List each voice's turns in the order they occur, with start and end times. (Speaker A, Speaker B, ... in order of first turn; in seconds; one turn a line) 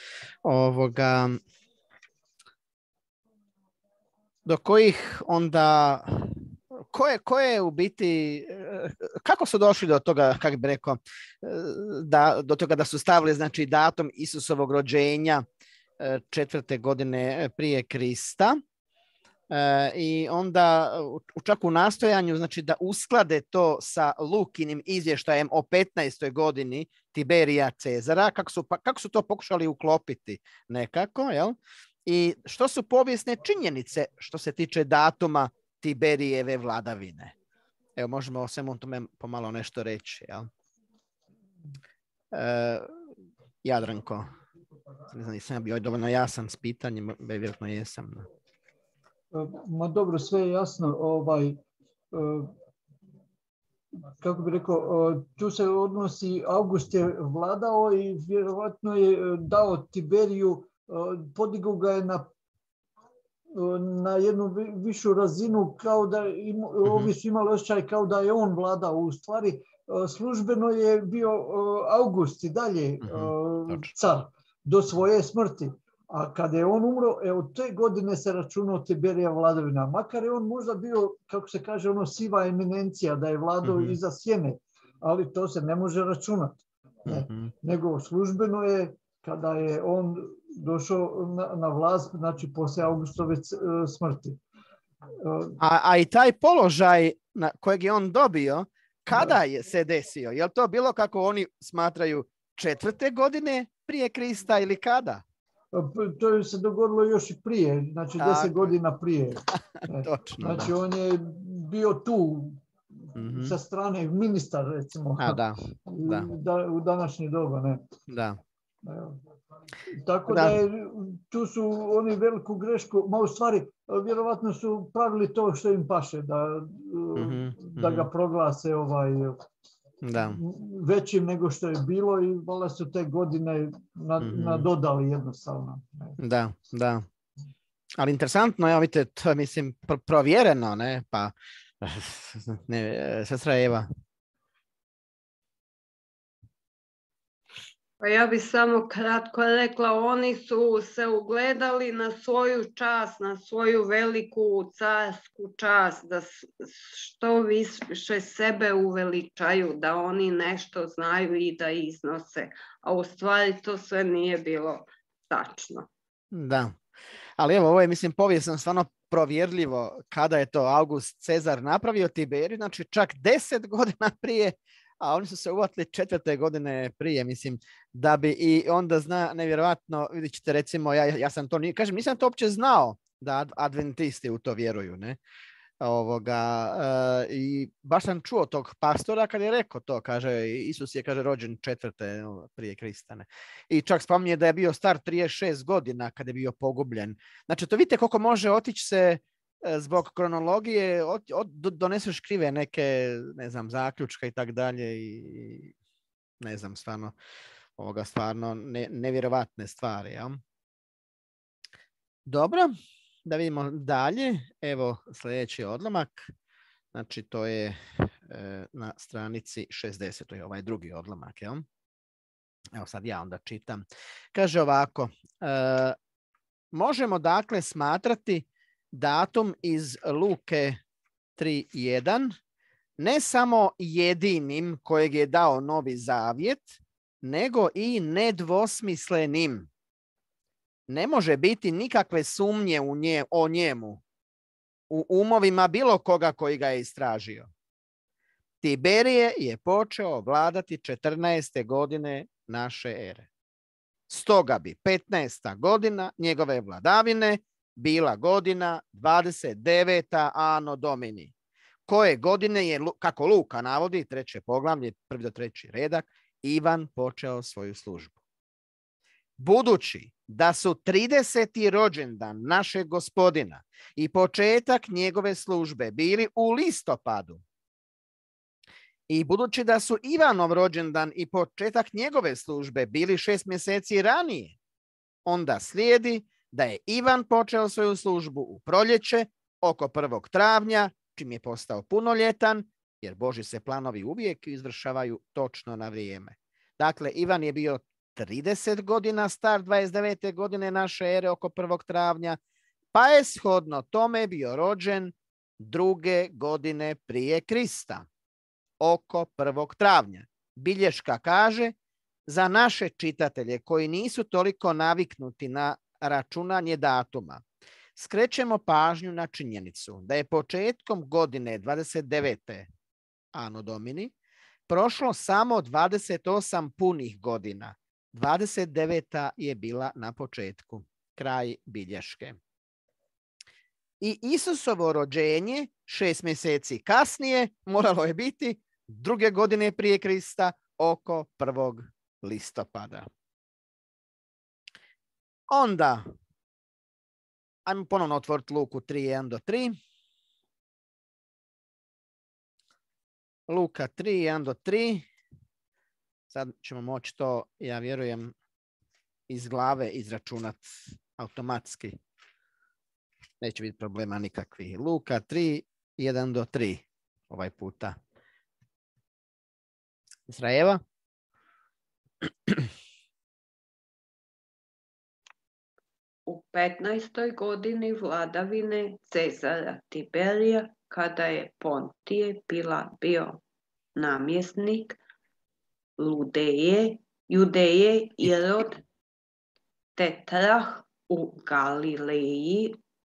Speaker A: 0.5-1.4
Speaker A: 4.5-15.4
Speaker A: 16.0-18.6
Speaker A: 19.5-37.4
Speaker A: 38.0-40.5
Speaker A: 42.3-42.9
Speaker A: 43.6-44.3
Speaker A: 45.1-48.3
Speaker B: 49.3-51.6
Speaker B: 52.1-52.5
Speaker B: 54.2-62.3
Speaker B: 63.5-94.4
Speaker A: 66.9-67.1
Speaker A: 73.0-73.9
Speaker A: 83.6-84.0
Speaker A: 87.1-87.5
Speaker B: 95.2-95.6
Speaker A: 95.6-105.2
Speaker B: 105.7-112.6
Speaker A: 108.2-108.7
Speaker A: 110.0-110.7
Speaker B: 113.1-117.8
Speaker A: 113.2-113.5
Speaker A: 115.2-116.3
Speaker A: 118.1-118.4
Speaker B: 118.8-119.2
Speaker B: 119.9-129.4
Speaker A: 120.3-120.6
Speaker A: 127.2-128.1
Speaker A: 130.0-130.4
Speaker B: 130.1-136.2
Speaker A: 134.2-134.7
Speaker A: 136.2-137.1
Speaker A: 138.0-143.9
Speaker C: 148.0-165.9
Speaker A: 166.3-166.8
Speaker A: 167.4-185.2
Speaker A: 185.8-205.7
Speaker A: 206.4-207.1
Speaker A: 207.8-210.4
Speaker A: 212.3-212.7
Speaker A: 213.2-216.3
Speaker A: 216.9-221.6
Speaker A: 222.8-223.8
Speaker A: 224.3-226.0
Speaker A: 226.7-230.8
Speaker A: 231.4-232.3
Speaker A: 233.0-239.7
Speaker A: 240.9-244.0
Speaker A: 244.9-247.5
Speaker A: 248.6-253.3
Speaker A: 254.1-261.3
Speaker A: 261.9-268.2
Speaker A: 269.4-277.4
Speaker A: 279.1-284.6
Speaker A: 285.3-302.4
Speaker A: 302.9-308.1
Speaker A: 308.8-311.7
Speaker A: 312.3-317.4
Speaker A: 318.0-322.7
Speaker A: 323.3-324.1
Speaker A: 324.7-332.4
Speaker A: 334.0-343.1
Speaker A: 345.5-346.1
Speaker A: 347.6-349.8
Speaker A: 353.5-355.1
Speaker A: 356.3-358.3
Speaker A: 359.3-362.0
Speaker A: 363.4-368.0
Speaker A: 370.3-370.8
Speaker C: 376.3-383.4
Speaker C: 384.0-385.0
Speaker C: 386.0-388.8
Speaker C: 390.0-392.8